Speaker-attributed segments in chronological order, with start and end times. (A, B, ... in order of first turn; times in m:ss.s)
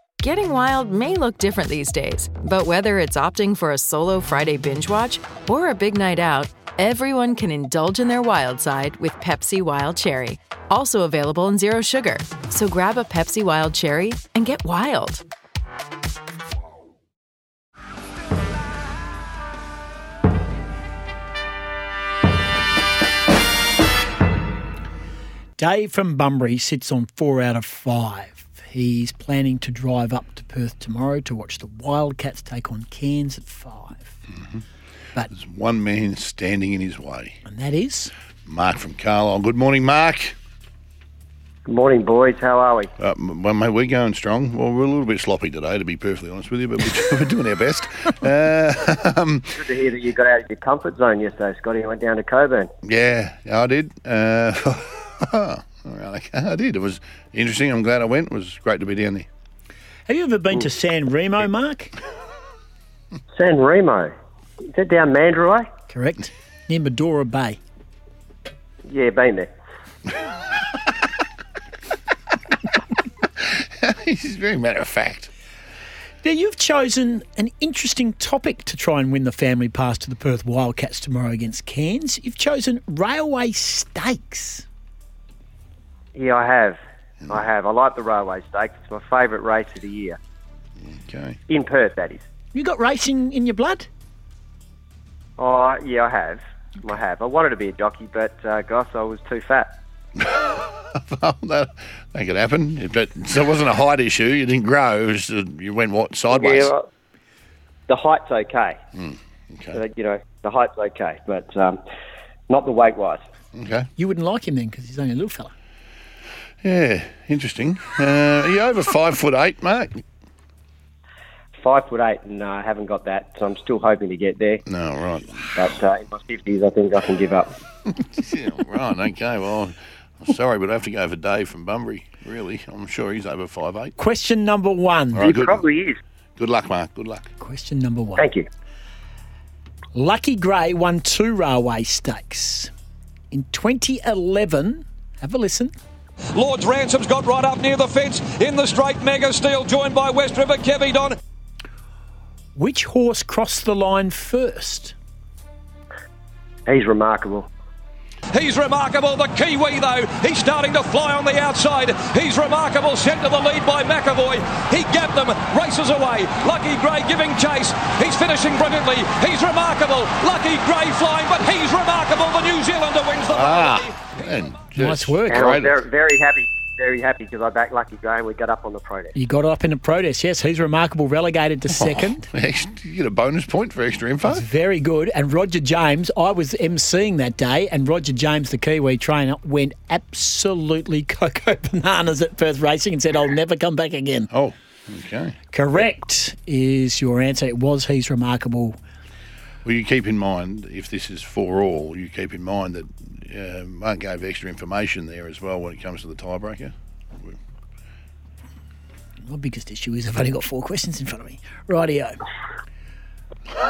0:00.2-0:15.2 A
0:25.6-0:34.2 B
0:35.3-0:37.4 C
0:37.4-0:38.1 B
0:38.5-0:40.4 C
0:41.7-0:42.9 D
0:43.0-0:49.5 C
0:49.5-0:52.7 D
0:52.8-0:59.3 C
1:00.1-1:01.9 B
1:03.4-1:04.1 D
1:04.7-1:05.7 D
1:05.9-1:07.6 B
1:08.9-1:09.5 D
1:13.4-1:15.3 C
1:16.2-1:24.7 B
1:26.2-1:30.2 D
1:30.8-1:31.4 C
1:31.5-1:32.2 D
1:32.5-1:33.9 B
1:35.4-1:39.7 D
1:40.2-1:46.7 C
1:46.3-1:46.9 D
1:47.9-1:48.8 D
1:49.0-1:49.8 C
1:49.7-1:51.8 D
1:52.5-1:53.2 D
1:53.6-1:53.9 C
1:54.0-1:55.5 B
1:56.6-2:00.0 C
2:01.6-2:04.6 D
2:04.7-2:05.5 C
2:05.6-2:07.5 D
2:07.9-2:14.0 C
2:14.0-2:15.3 B
2:15.2-2:15.6 C
2:15.2-2:16.0 D
2:16.4-2:17.3 C
2:17.4-2:18.3 B
2:18.2-2:18.5 D
2:19.9-2:22.7 B
2:23.3-2:25.7 B
2:26.4-2:31.2 E
2:32.6-2:35.0 B
2:36.7-2:37.5 D
2:38.3-2:53.9 E
2:53.3-2:55.8 C
2:54.8-2:55.5 B
2:55.3-2:59.1 D
2:59.2-3:02.3 B
3:01.7-3:04.5 C
3:04.2-3:14.3 B
3:14.3-3:15.4 C
3:15.5-3:18.8 B
3:19.6-3:27.4 C
3:29.3-3:32.2 B